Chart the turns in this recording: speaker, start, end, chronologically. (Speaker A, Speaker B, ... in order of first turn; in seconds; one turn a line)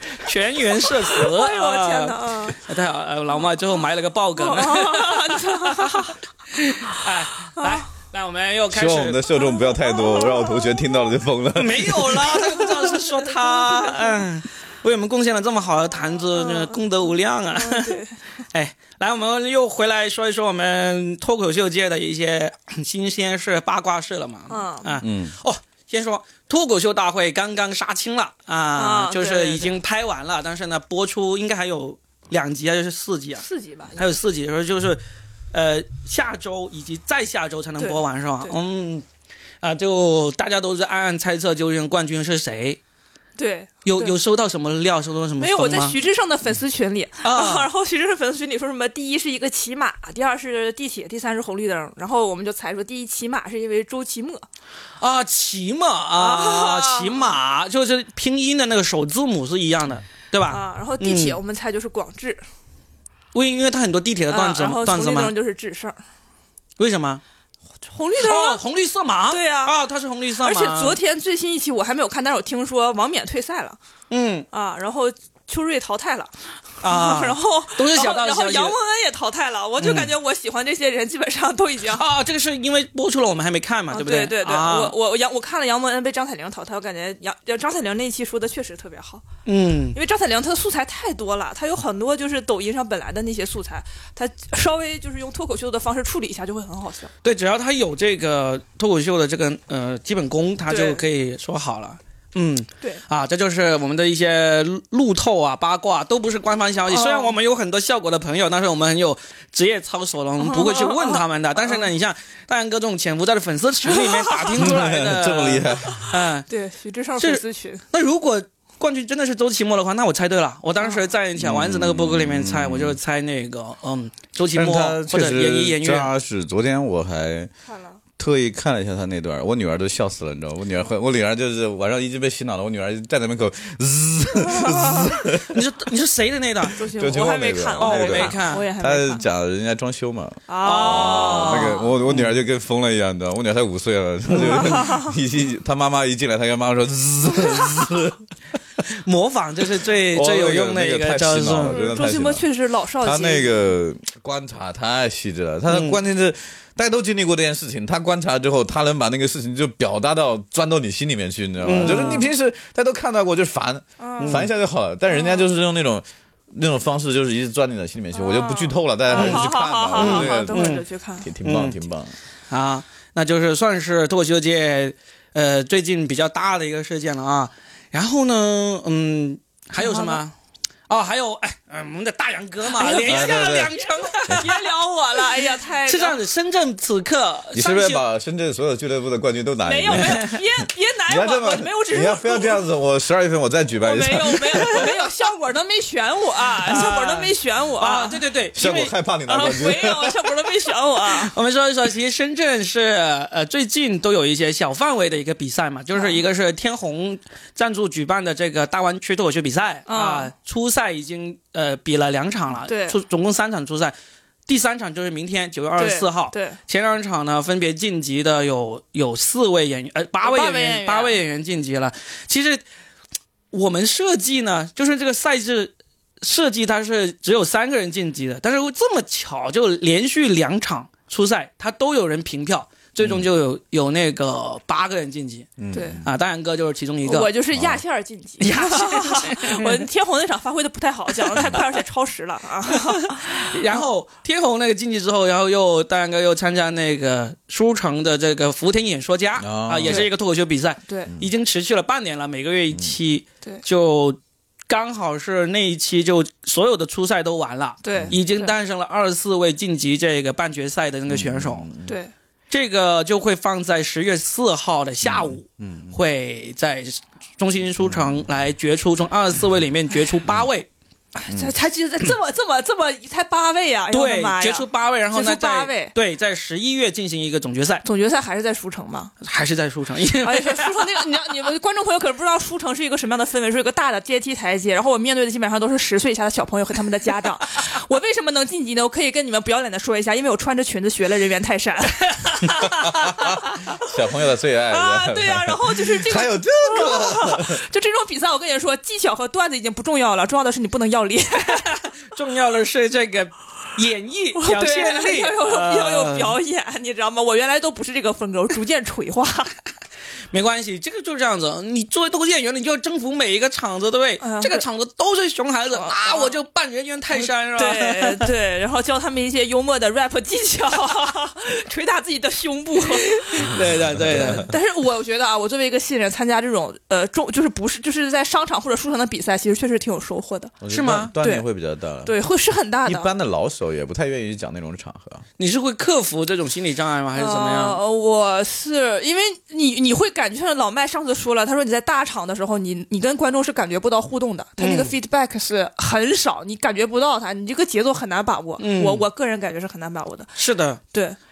Speaker A: 0.2-9.3
Speaker B: 1.2-2.6
Speaker B: 4.4-6.2
Speaker B: 7.6-7.8
Speaker C: 8.7-12.4
Speaker B: 9.6-10.8
Speaker A: 11.6-18.0
Speaker B: 12.5-14.3
Speaker B: 16.3-16.8
Speaker B: 17.6-18.2
Speaker A: 18.5-33.5
Speaker B: 24.5-25.0
Speaker C: 25.0-25.4
Speaker B: 28.8-29.7
Speaker B: 33.4-34.1
Speaker A: 34.0-39.0
Speaker B: 37.8-38.6
Speaker A: 39.6-42.8
Speaker B: 43.4-44.2
Speaker A: 43.9-46.0
Speaker B: 45.4-54.5
Speaker A: 47.2-47.7
Speaker A: 55.0-61.4
Speaker B: 56.1-57.3
Speaker B: 60.5-62.4
Speaker A: 63.3-65.3
Speaker B: 64.3-66.0
Speaker A: 66.8-67.2
Speaker B: 67.9-68.6
Speaker A: 68.2-71.0
Speaker B: 69.3-69.8
Speaker B: 70.4-73.8
Speaker A: 74.1-74.5
Speaker B: 74.5-76.3
Speaker A: 76.8-78.8
Speaker B: 76.8-82.0
Speaker A: 79.8-80.1
Speaker A: 81.9-85.0
Speaker B: 83.9-89.3
Speaker A: 89.5-90.0
Speaker B: 89.9-97.1
Speaker A: 97.2-116.5
Speaker B: 100.7-101.0
Speaker B: 106.9-107.4
Speaker B: 110.4-111.9
Speaker C: 114.6-116.1
Speaker B: 116.5-117.8
Speaker A: 117.2-126.1
Speaker B: 120.8-121.1
Speaker C: 121.4-123.0
Speaker C: 124.5-127.5
Speaker B: 127.7-128.0
Speaker C: 128.2-135.6
Speaker B: 134.6-135.1
Speaker A: 135.5-136.8
Speaker B: 136.8-139.2
Speaker C: 137.0-148.2
Speaker A: 137.8-138.7
Speaker B: 140.5-141.9
Speaker A: 140.6-142.3
Speaker A: 144.3-144.8
Speaker B: 144.5-145.1
Speaker A: 149.0-151.8
Speaker C: 150.1-152.5
Speaker B: 151.6-153.7
Speaker C: 153.0-170.7
Speaker A: 155.7-156.0
Speaker A: 161.6-162.3
Speaker B: 164.0-164.4
Speaker A: 164.2-164.5
Speaker B: 165.1-165.5
Speaker B: 168.1-171.3
Speaker A: 169.1-170.8
Speaker C: 171.2-172.2
Speaker A: 171.4-171.8
Speaker A: 172.5-180.3
Speaker B: 179.8-180.2
Speaker A: 180.9-184.6
Speaker B: 182.7-186.2
Speaker C: 183.1-183.7
Speaker A: 185.9-188.0
Speaker C: 187.5-195.1
Speaker B: 189.6-192.7
Speaker A: 189.9-190.3
Speaker B: 193.8-198.2
Speaker A: 196.6-198.9
Speaker C: 198.6-200.3
Speaker B: 199.3-201.3
Speaker A: 201.1-214.0
Speaker B: 205.9-206.2
Speaker B: 209.9-210.3
Speaker B: 212.7-213.0
Speaker A: 214.5-222.6
Speaker B: 215.8-216.6
Speaker B: 220.2-221.2
Speaker A: 223.5-237.3
Speaker C: 233.0-233.3
Speaker C: 235.6-236.1
Speaker B: 235.7-236.0
Speaker B: 237.0-243.8
Speaker C: 237.5-237.8
Speaker A: 238.4-239.9
Speaker A: 242.7-261.7
Speaker C: 249.4-250.1
Speaker B: 250.9-251.1
Speaker B: 257.8-258.5
Speaker C: 261.1-262.0
Speaker B: 261.9-262.1
Speaker A: 262.5-270.7
Speaker C: 265.0-266.0
Speaker C: 267.8-268.1
Speaker B: 271.2-275.9
Speaker C: 271.3-271.5
Speaker A: 273.9-277.8
Speaker B: 277.8-279.1
Speaker A: 279.2-280.8
Speaker B: 280.2-292.5
Speaker C: 292.6-297.6
Speaker B: 294.7-301.8
Speaker A: 301.5-306.4
Speaker B: 304.4-309.6
Speaker A: 310.3-318.3
Speaker B: 314.2-314.6
Speaker B: 315.7-316.4
Speaker B: 317.2-323.5
Speaker A: 322.8-324.5
Speaker C: 323.5-324.5
Speaker B: 324.4-330.6
Speaker C: 330.6-332.2
Speaker A: 330.7-331.1
Speaker B: 331.2-331.5
Speaker B: 332.0-333.1
Speaker C: 332.9-335.3
Speaker A: 335.4-337.8
Speaker B: 337.1-350.4
Speaker A: 344.6-344.9
Speaker A: 348.6-349.1
Speaker A: 350.4-350.8
Speaker B: 350.9-351.2